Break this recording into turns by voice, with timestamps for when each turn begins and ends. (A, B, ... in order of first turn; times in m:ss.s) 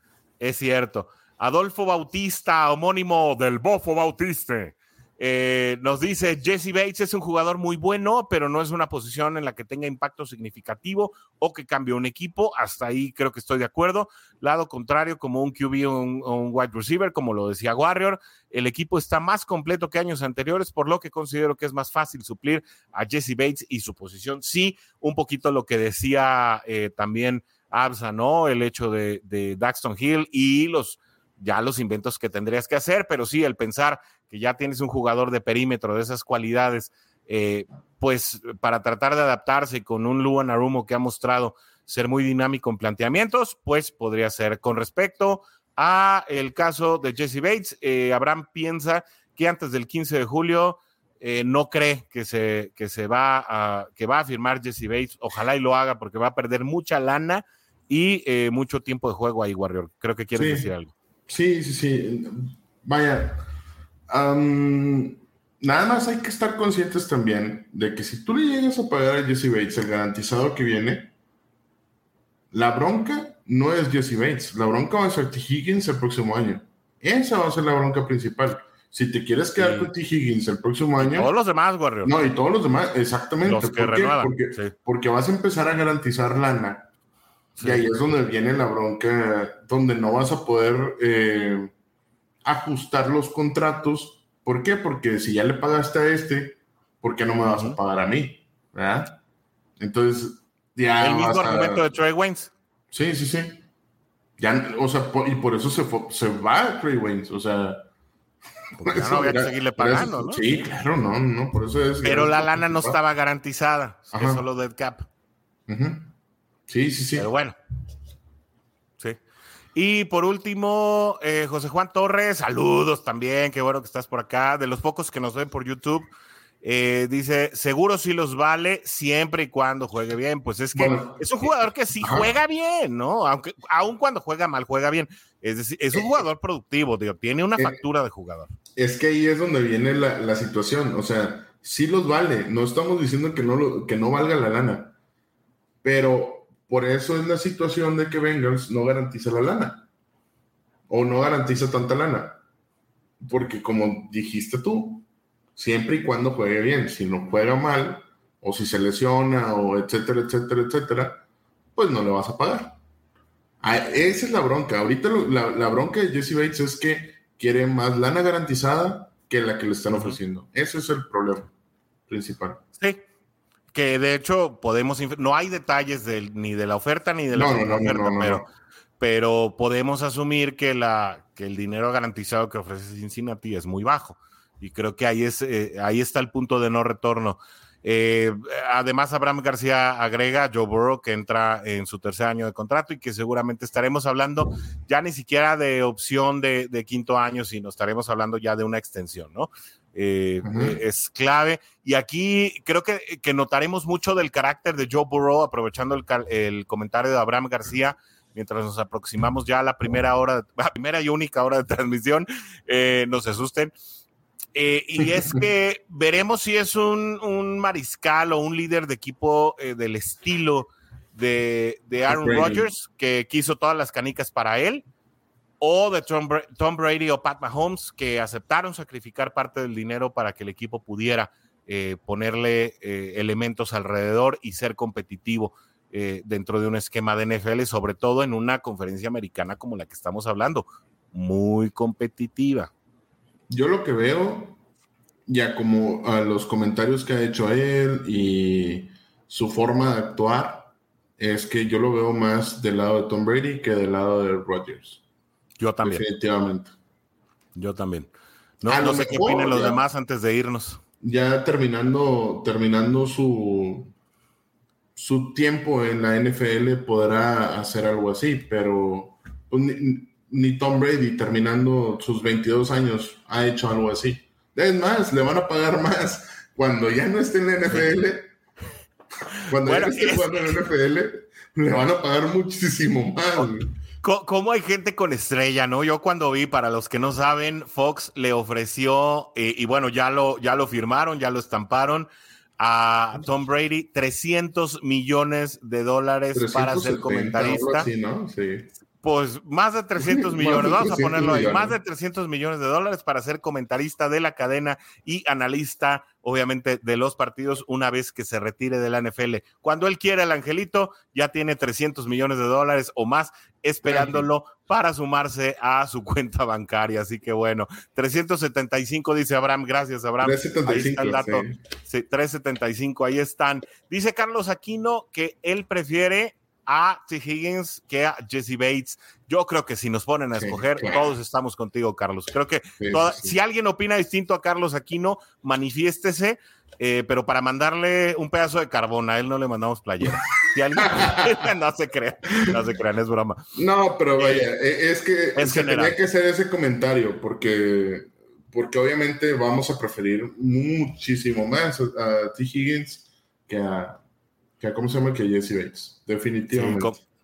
0:00.4-1:00.9 A
1:00.4-1:00.7 B
1:01.3-1:03.4 B
1:04.1-1:11.1 B
1:12.5-1:21.3 B
1:19.6-1:19.9 A
1:21.0-1:22.3 A
1:22.0-1:26.9 B
1:23.4-1:24.7 A
1:27.6-1:27.9 A
1:27.6-1:31.7 B
1:32.4-1:39.2 B
1:37.4-1:37.8 A
1:39.8-1:41.8 B
1:41.0-1:42.5 A
1:42.9-1:43.6 B
1:44.4-1:47.8 B
1:48.8-1:50.6 A
1:48.8-1:53.0 B
1:52.0-1:55.1 A
1:54.1-1:54.4 B
1:55.7-1:56.1 B
1:56.7-1:57.3 B
1:57.1-1:57.6 A
1:59.7-2:06.1 A
2:06.6-2:18.5 A
2:10.7-2:12.3 B
2:15.9-2:16.2 B
2:18.8-2:24.9 B
2:25.8-2:29.9 B
2:30.9-2:32.4 B
2:33.2-2:41.2 B
2:41.7-2:42.8 B
2:43.6-2:51.5 B
2:49.9-2:50.2 A
2:52.1-2:52.6 B
2:52.8-2:53.0 A
2:53.7-2:58.4 A
2:57.3-2:58.4 B
2:59.0-3:33.7 A
3:20.4-3:20.8 B
3:34.5-3:44.8 A
3:35.0-3:35.4 B
3:42.1-3:42.7 B
3:45.6-4:02.7 A
4:03.5-4:04.6 B
4:05.3-4:15.0 B
4:15.6-4:16.0 A
4:15.8-4:16.7 B
4:17.6-4:18.1 A
4:18.6-4:20.8 A
4:18.6-4:19.8 B
4:21.0-4:23.9 B
4:25.0-4:38.3 B
4:39.5-4:43.7 B
4:39.6-4:40.5 A
4:44.0-4:52.1 A
4:52.6-4:57.9 A
4:56.3-4:58.7 B
4:59.0-5:43.4 A
5:00.0-5:01.8 B
5:13.8-5:14.2 B
5:20.2-5:21.6 B
5:30.4-5:31.0 B
5:32.8-5:33.4 B
5:40.8-5:41.3 B
5:43.5-5:54.0 B
5:44.2-5:44.5 A
5:45.4-5:46.0 A
5:54.6-5:56.9 B
5:56.5-5:57.0 A